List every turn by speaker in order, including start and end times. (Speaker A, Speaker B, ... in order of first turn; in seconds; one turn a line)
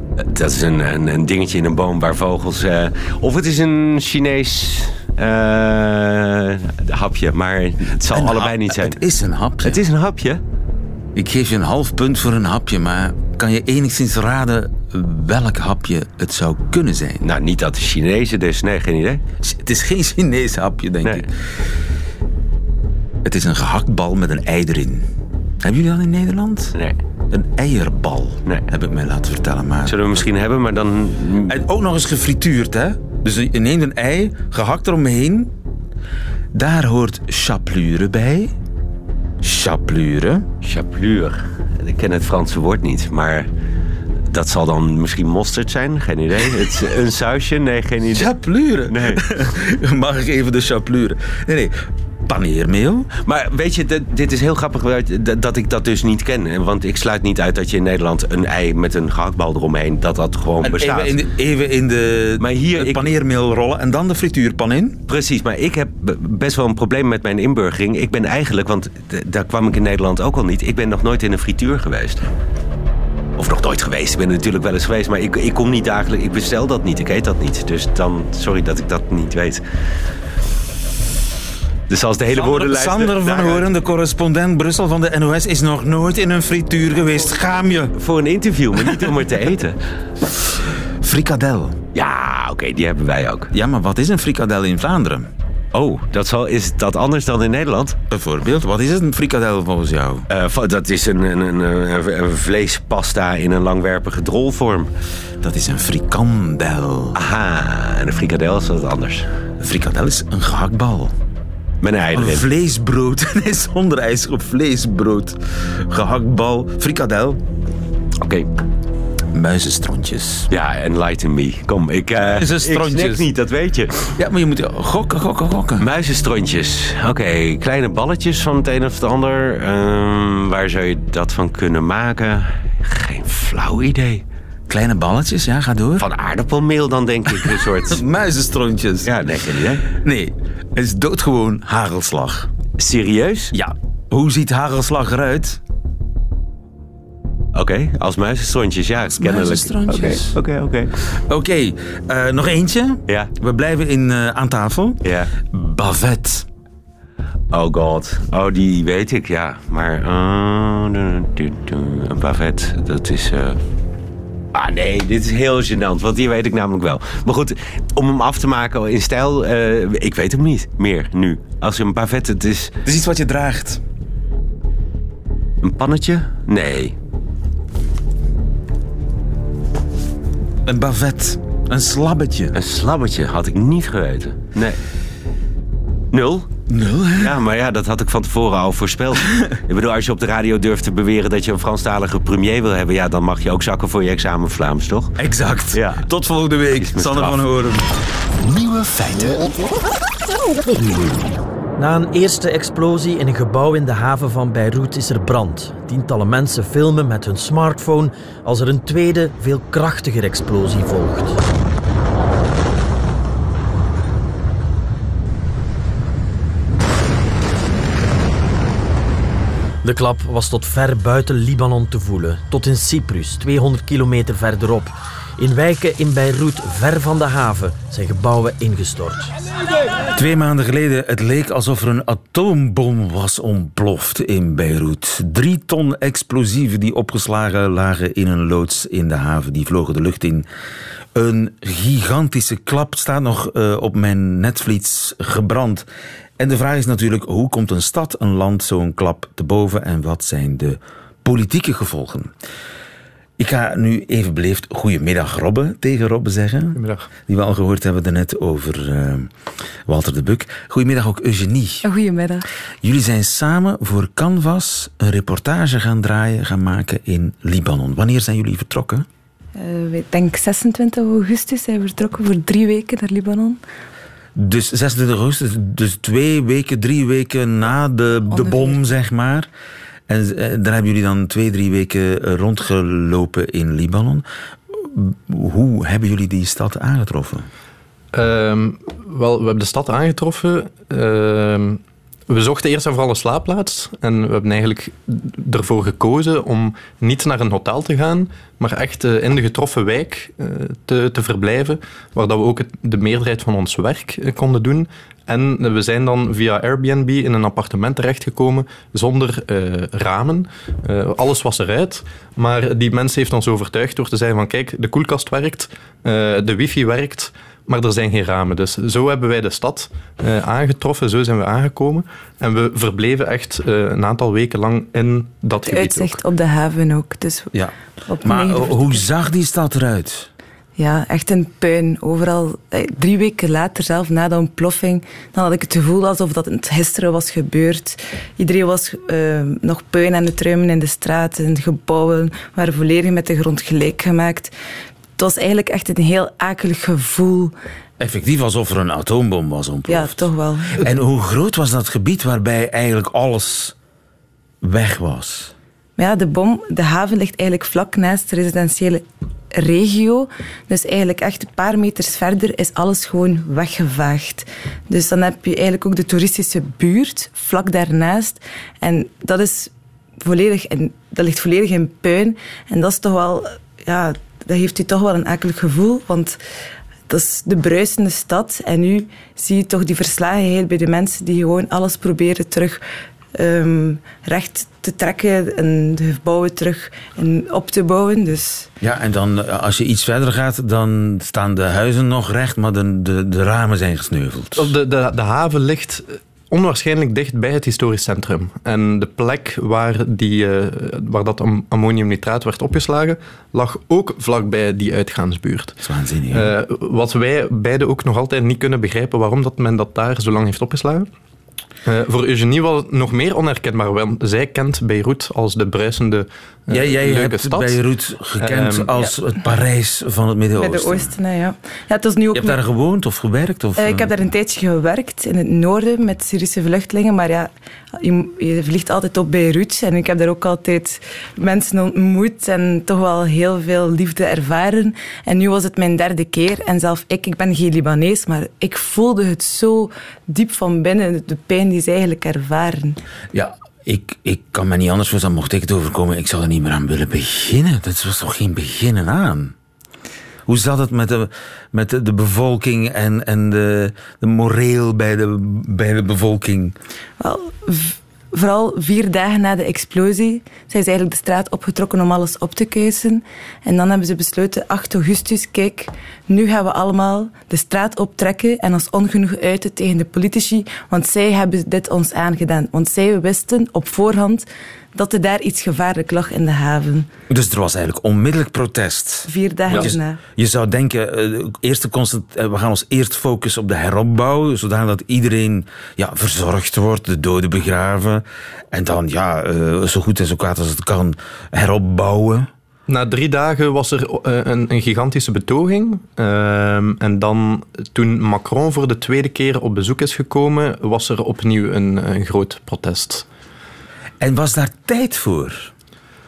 Speaker A: 0.2-9.0
Speaker B: 8.1-9.8
Speaker A: 9.6-10.4
Speaker B: 11.1-17.2
Speaker A: 17.2-19.2
Speaker B: 19.4-21.3
Speaker B: 23.2-25.1
Speaker B: 25.6-26.7
Speaker B: 27.3-30.1
Speaker A: 29.9-31.6
Speaker B: 31.5-35.5
Speaker B: 36.5-38.5
Speaker B: 39.4-40.5
Speaker A: 40.6-43.5
Speaker A: 44.3-48.3
Speaker B: 48.1-53.1
Speaker A: 48.9-49.2
Speaker A: 53.2-61.2
Speaker B: 60.6-65.0
Speaker A: 62.4-63.1
Speaker A: 65.1-72.3
Speaker A: 73.4-79.6
Speaker A: 81.9-83.7
Speaker B: 82.3-87.9
Speaker A: 88.0-89.8
Speaker B: 91.0-91.8
Speaker A: 91.9-93.5
Speaker B: 93.5-95.3
Speaker A: 95.7-98.0
Speaker B: 98.1-100.2
Speaker A: 100.3-104.9
Speaker B: 105.4-107.2
Speaker A: 107.1-109.3
Speaker B: 109.6-111.1
Speaker A: 111.8-112.5
Speaker B: 112.1-117.4
Speaker A: 118.2-118.5
Speaker B: 119.3-120.5
Speaker A: 120.5-124.2
Speaker B: 122.2-123.3
Speaker B: 124.2-125.9
Speaker A: 125.8-134.2
Speaker B: 134.7-136.1
Speaker A: 136.0-138.0
Speaker B: 137.4-139.2
Speaker A: 139.0-139.9
Speaker B: 139.9-142.5
Speaker A: 142.8-143.5
Speaker B: 143.5-145.6
Speaker A: 147.5-151.0
Speaker B: 149.1-150.4
Speaker B: 151.1-155.0
Speaker A: 155.0-155.3
Speaker B: 155.5-156.5
Speaker A: 157.5-163.6
Speaker A: 164.5-172.8
Speaker B: 172.8-173.8
Speaker A: 175.6-176.9
Speaker B: 180.6-182.6
Speaker A: 182.5-184.8
Speaker A: 186.1-186.5
Speaker B: 186.7-187.4
Speaker A: 187.2-195.2
Speaker B: 195.2-197.9
Speaker A: 195.7-196.1
Speaker A: 196.7-197.4
Speaker B: 198.5-199.4
Speaker C: 201.8-211.4
Speaker C: 219.8-229.3
Speaker B: 230.2-240.4
Speaker B: 241.1-245.9
Speaker B: 246.4-252.3
Speaker B: 253.4-259.3
Speaker D: 256.7-257.1
Speaker B: 259.9-261.8
Speaker E: 261.8-262.5
Speaker B: 262.8-269.1
Speaker E: 269.6-273.6
Speaker B: 274.3-279.5
Speaker E: 278.3-278.8
Speaker B: 280.1-287.5
Speaker D: 288.1-326.2
Speaker E: 325.6-327.5
Speaker B: 327.5-330.3
Speaker E: 328.1-329.0
Speaker E: 330.8-344.5
Speaker E: 345.2-347.5
Speaker B: 348.0-353.7
Speaker E: 349.9-350.7
Speaker B: 354.6-355.5
Speaker E: 356.0-376.4
Speaker E: 377.1-382.8
Speaker E: 383.3-388.7
Speaker B: 388.8-394.7
Speaker D: 394.6-405.8
Speaker B: 405.8-406.5
Speaker D: 406.3-411.1
Speaker D: 411.9-417.8
Speaker B: 416.7-421.1
Speaker D: 418.4-419.1
Speaker E: 420.6-422.6
Speaker B: 422.3-424.1
Speaker E: 423.8-443.0
Speaker B: 443.3-449.5
Speaker B: 450.5-456.8
Speaker E: 457.2-477.1
Speaker B: 477.3-492.5
Speaker E: 479.3-480.2
Speaker D: 492.9-503.2
Speaker B: 504.2-505.7